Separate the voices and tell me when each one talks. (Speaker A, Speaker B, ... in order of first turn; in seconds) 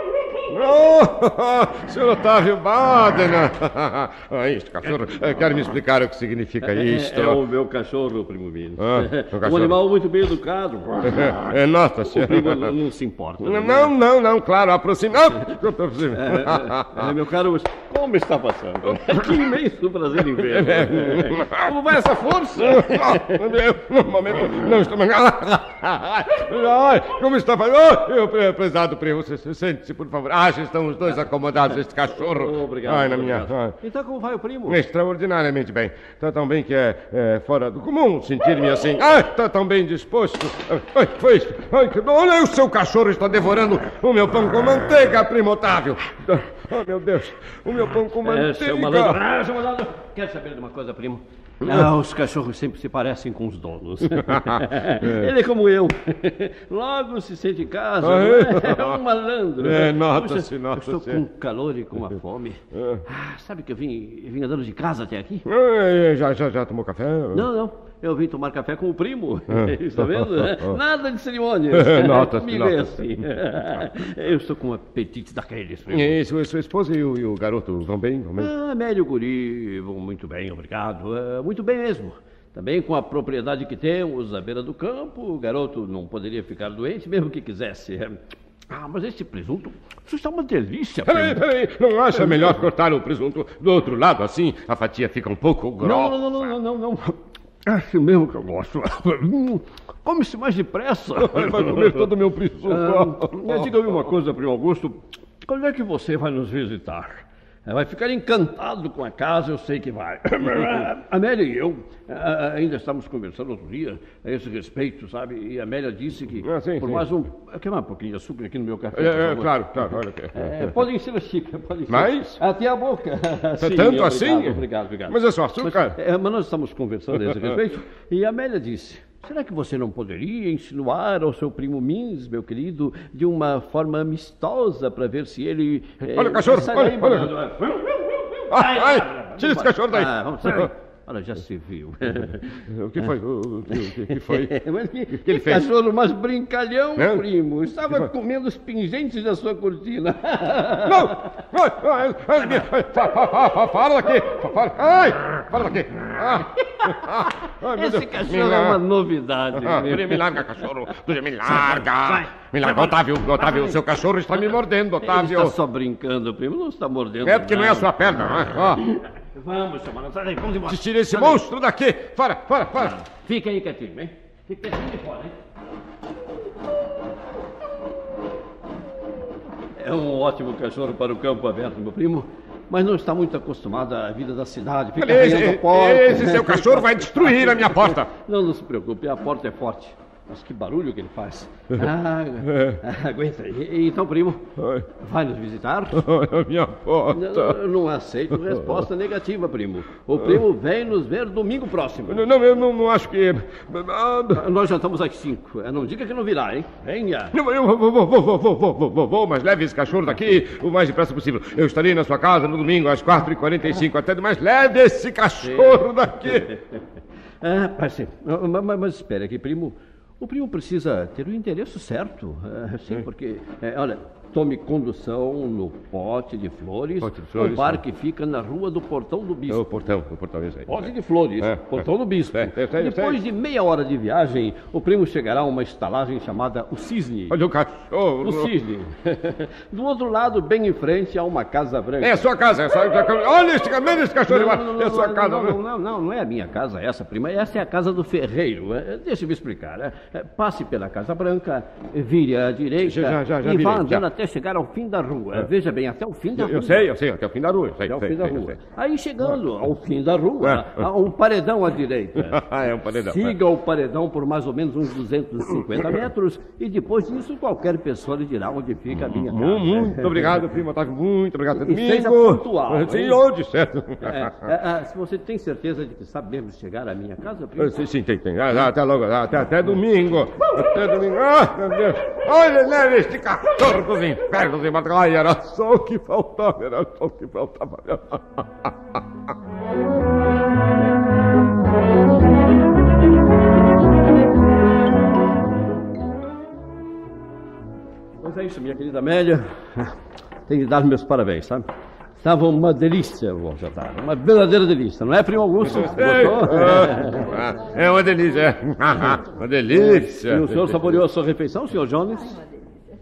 Speaker A: 0.5-7.4, 8.8-9.8, 11.1-12.7, 13.4-17.1, 18.9-19.4, 20.4-21.8, 22.6-33.8, 34.6-49.2, 51.6-51.9, 54.2-55.3, 58.0-59.0, 59.6-61.2, 62.8-63.0, 65.5-67.5, 69.5-70.8, 71.7-73.8, 75.9-78.5, 91.1-96.5, 101.2-104.0, 116.4-117.0, 118.9-120.7, 121.9-122.4, 123.6-126.0, 136.1-137.3, 138.5-140.7, 142.7-144.6, 145.1-145.7, 147.0-147.2, 150.8-158.8, 159.6-165.5, 167.2-168.8, 170.7-173.0, 185.0-188.1, 192.4-192.8, 194.6-194.9, 195.9-197.6, 198.4-198.9, 200.2-200.4, 202.1-204.4, 207.3-216.5, 227.0-227.8, 229.5-233.2, 237.3-238.5, 242.0-245.6, 252.8-254.0, 256.4-258.6, 260.4-260.9, 262.2-263.4, 268.9-274.5, 277.6-288.7, 305.7-310.9
Speaker B: 4.8-5.8, 6.6-11.5, 12.1-13.9, 16.1-23.5, 31.1-34.8, 48.2-65.4, 67.3-76.2, 78.4-91.5, 92.0-92.7, 95.8-142.4, 143.7-151.2, 152.3-152.8, 157.6-160.9, 161.4-163.8, 164.3-171.4, 172.7-175.4, 179.8-196.0, 197.1-202.3, 204.3-207.3, 215.4-216.6, 217.4-229.8, 230.7-237.3, 238.2-242.3, 244.2-256.9, 257.8-270.4, 271.5-273.2, 274.0-277.8, 298.2-307.3, 309.7-312.3